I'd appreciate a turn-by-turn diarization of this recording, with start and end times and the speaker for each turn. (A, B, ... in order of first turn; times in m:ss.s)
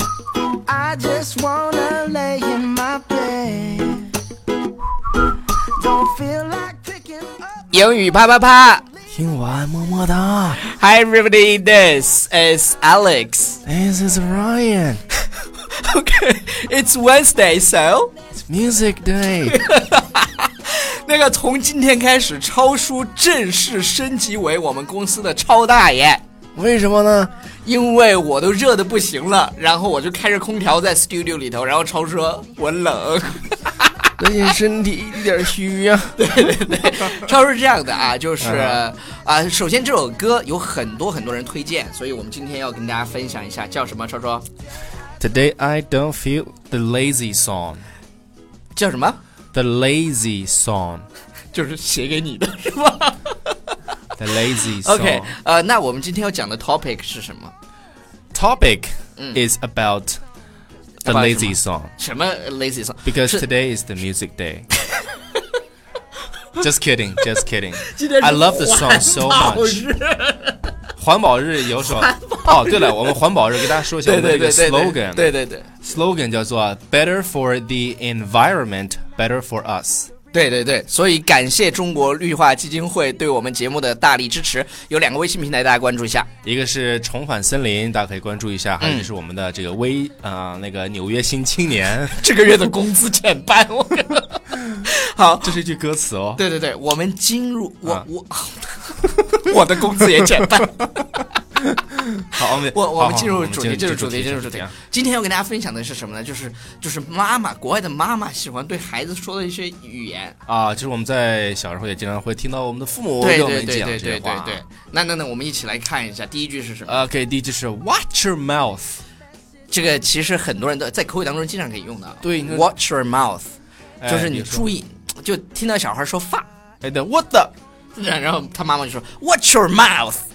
0:00.6-0:04.1 A
0:05.8-0:07.7 A
0:07.7-0:08.8 B
0:09.1-0:10.6 C
0:10.6-0:13.6 B
0:13.6-0:15.0 C
0:15.7-0:18.1 B
0:18.4-0:19.6 C
0:19.4-0:26.2 B
0:26.5-0:27.3 C
0:27.6-0:34.5 B
0:34.2-0:36.2 C
0:36.2-0:44.4 B
0:38.4-0:38.8 C
0:45.2-0:47.8 C
0:48.8-0:49.2 B
0:49.5-0:51.1 C
0:51.5-0:53.6 B
0:54.1-0:55.3 C
0:54.7-0:57.5 B
0:58.3-1:00.2 C
0:59.2-0:59.4 B
1:01.0-1:03.5 B
1:01.0-1:01.9 C
1:03.0-1:04.7 C
1:06.6-1:09.8 C
1:07.8-1:10.7 B
1:11.0-1:20.1 C
1:11.8-1:13.1 B
1:13.7-1:15.7 B
1:20.3-1:26.3 B
1:26.4-1:32.2 C
1:28.8-1:29.1 B
1:32.2-1:35.6 B
1:35.4-1:36.4 C
1:36.4-1:41.3 B
1:41.6-1:44.7 C
1:42.4-1:50.4 B
1:50.5-1:54.6 C
1:53.2-1:57.0 B
1:56.9-1:59.0 C
1:59.7-2:06.4 B
2:02.2-2:02.7 C
2:04.0-2:04.7 C
2:06.8-2:07.5 C
2:08.0-2:10.2 B